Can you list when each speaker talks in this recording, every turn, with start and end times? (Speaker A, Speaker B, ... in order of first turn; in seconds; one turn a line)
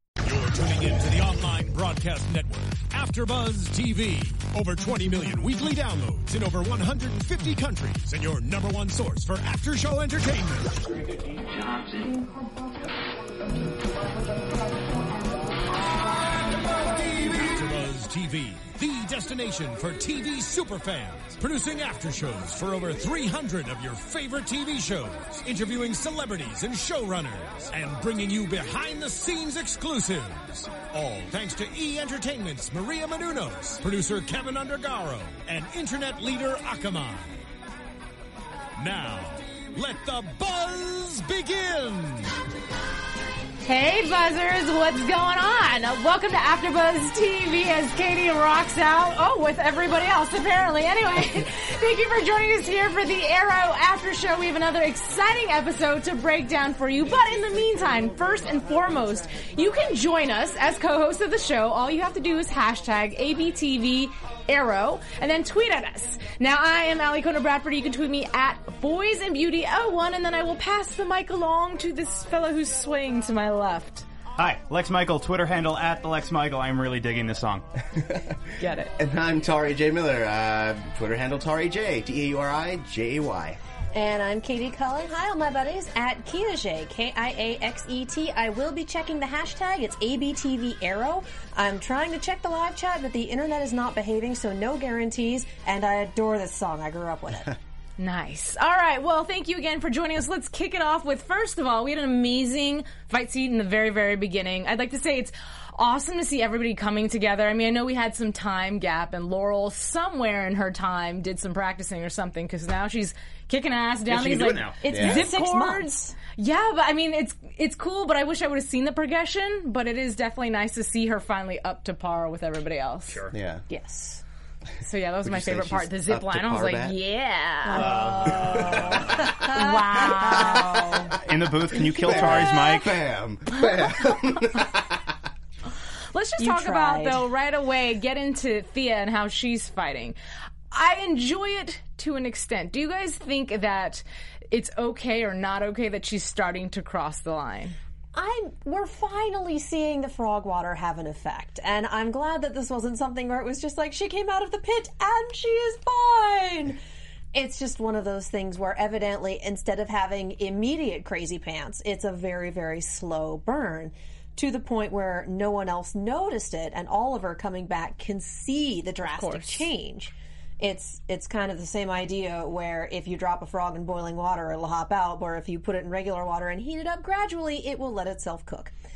Speaker A: 0.2-11.0
Speaker A: 16.7-37.4
Speaker A: 38.8-42.3
Speaker B: 43.6-74.1
Speaker C: 74.4-77.6
Speaker D: 77.9-83.6
Speaker B: 78.6-78.9
Speaker E: 83.9-97.6
Speaker B: 98.0-123.2
Speaker C: 114.1-114.8
Speaker D: 114.9-115.3
Speaker E: 114.9-116.2
Speaker C: 123.1-123.3
Speaker D: 123.3-123.6
Speaker E: 123.7-124.2
Speaker B: 124.8-128.0
Speaker D: 125.2-127.0
Speaker E: 127.7-131.2
Speaker C: 127.7-129.3
Speaker D: 128.2-129.3
Speaker B: 129.5-131.1
Speaker D: 130.0-131.2
Speaker C: 131.2-132.9
Speaker E: 131.8-132.6
Speaker D: 132.0-135.1
Speaker B: 133.5-134.0
Speaker B: 136.1-140.2
Speaker E: 136.4-137.2
Speaker B: 140.7-147.8
Speaker E: 148.1-156.8
Speaker E: 157.3-178.7
Speaker B: 169.1-169.7